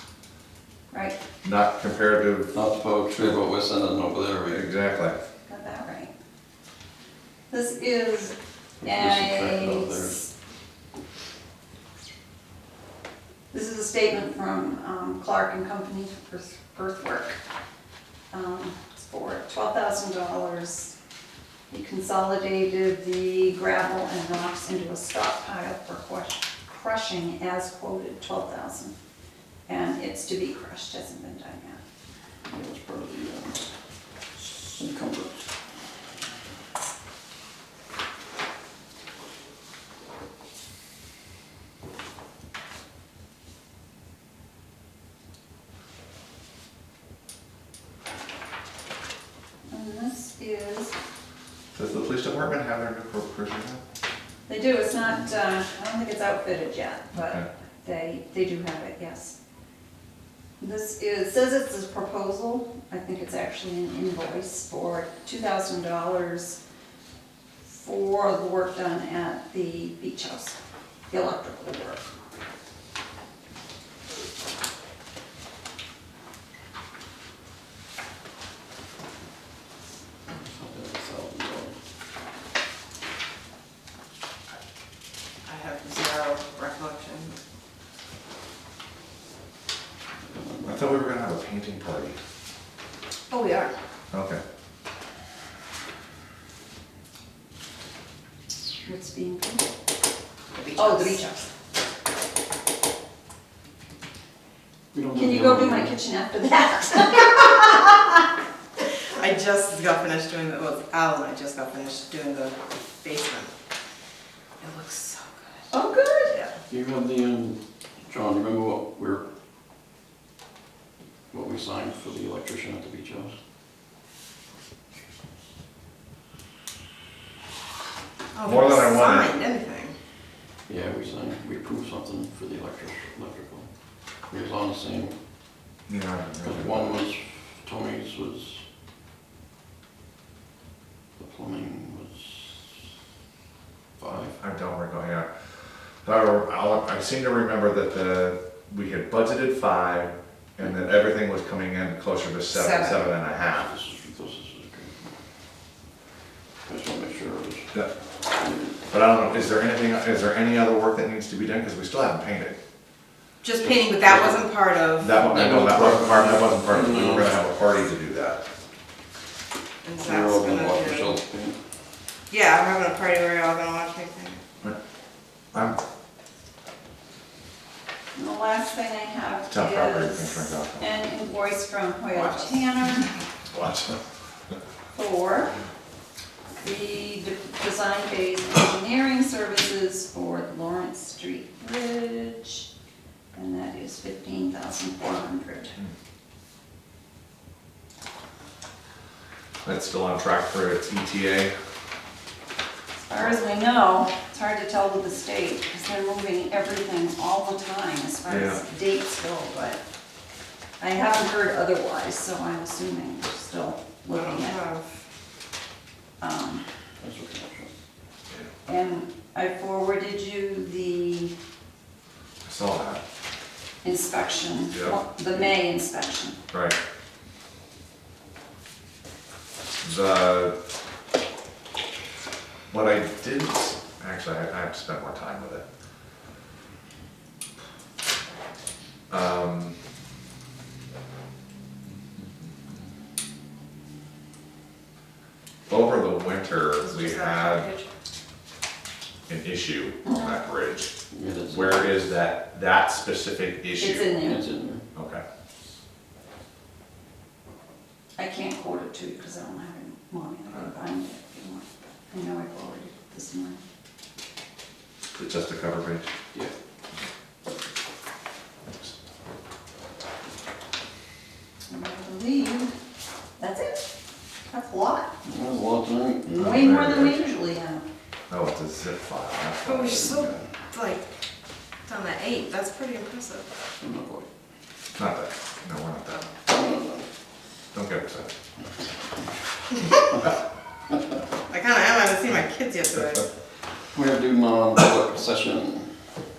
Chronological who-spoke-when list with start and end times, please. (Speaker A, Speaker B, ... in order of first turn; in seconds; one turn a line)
Speaker A: 0.9-1.2
Speaker B: 1.4-2.5
Speaker C: 2.5-4.7
Speaker B: 4.5-5.2
Speaker A: 5.5-6.1
Speaker A: 7.5-10.3
Speaker C: 8.8-10.2
Speaker A: 13.5-17.4
Speaker A: 18.3-20.9
Speaker A: 21.7-28.9
Speaker A: 29.7-31.8
Speaker C: 32.5-33.7
Speaker C: 34.7-35.5
Speaker A: 49.7-50.9
Speaker B: 51.7-53.8
Speaker A: 54.5-59.4
Speaker B: 57.1-57.5
Speaker A: 60.6-66.6
Speaker A: 67.7-70.6
Speaker A: 71.1-72.1
Speaker C: 80.3-81.7
Speaker D: 85.5-87.3
Speaker C: 90.3-90.8
Speaker B: 90.6-92.2
Speaker A: 93.3-93.7
Speaker B: 94.1-94.4
Speaker A: 98.8-99.6
Speaker D: 100.5-101.3
Speaker A: 100.8-101.4
Speaker C: 104.9-106.0
Speaker A: 105.1-108.1
Speaker D: 109.2-113.5
Speaker D: 114.6-115.7
Speaker A: 115.7-116.4
Speaker C: 116.7-117.6
Speaker C: 118.1-119.2
Speaker C: 121.3-123.3
Speaker D: 128.3-129.9
Speaker B: 128.4-129.3
Speaker C: 130.7-133.7
Speaker C: 134.3-135.1
Speaker B: 135.9-137.0
Speaker C: 136.4-138.6
Speaker C: 141.2-142.8
Speaker C: 144.0-144.3
Speaker B: 144.3-145.3
Speaker B: 146.0-153.7
Speaker A: 152.5-152.9
Speaker C: 153.6-155.0
Speaker C: 156.6-157.8
Speaker C: 158.4-158.7
Speaker B: 158.9-162.6
Speaker D: 163.4-165.2
Speaker C: 163.6-164.4
Speaker B: 165.0-168.4
Speaker C: 165.2-167.4
Speaker D: 169.8-171.2
Speaker C: 170.0-171.6
Speaker D: 172.3-174.4
Speaker B: 175.5-175.8
Speaker A: 178.1-183.1
Speaker B: 179.5-180.9
Speaker D: 182.1-183.0
Speaker B: 183.5-184.0
Speaker A: 184.9-185.5
Speaker A: 186.6-192.7
Speaker A: 193.3-195.8
Speaker B: 199.6-201.5
Speaker A: 203.0-209.8
Speaker B: 208.3-208.6
Speaker A: 210.8-214.6
Speaker D: 214.1-214.9
Speaker A: 216.2-216.7
Speaker C: 217.0-217.7
Speaker A: 218.7-221.4
Speaker B: 222.4-223.0
Speaker A: 223.8-226.4
Speaker B: 224.7-225.0
Speaker B: 226.5-226.8
Speaker B: 229.8-230.5
Speaker B: 232.7-235.6
Speaker B: 239.1-239.8
Speaker B: 242.1-242.8
Speaker B: 245.7-247.7
Speaker D: 246.8-247.9
Speaker B: 249.3-250.9
Speaker A: 250.0-250.3
Speaker C: 251.1-252.0
Speaker B: 251.5-254.1
Speaker A: 253.8-254.4
Speaker C: 254.1-254.8
Speaker B: 254.9-255.2
Speaker A: 258.2-263.6
Speaker B: 265.1-266.1
Speaker B: 268.7-268.9
Speaker A: 271.7-272.7
Speaker A: 273.4-273.8
Speaker A: 274.5-275.1
Speaker C: 275.2-276.6
Speaker A: 276.4-277.9
Speaker B: 276.4-277.3
Speaker B: 278.3-280.4
Speaker D: 279.6-281.1
Speaker D: 281.9-283.5
Speaker C: 283.8-284.3
Speaker B: 284.9-286.2
Speaker C: 286.5-287.0
Speaker B: 287.7-288.3
Speaker D: 291.5-293.2
Speaker C: 293.9-295.9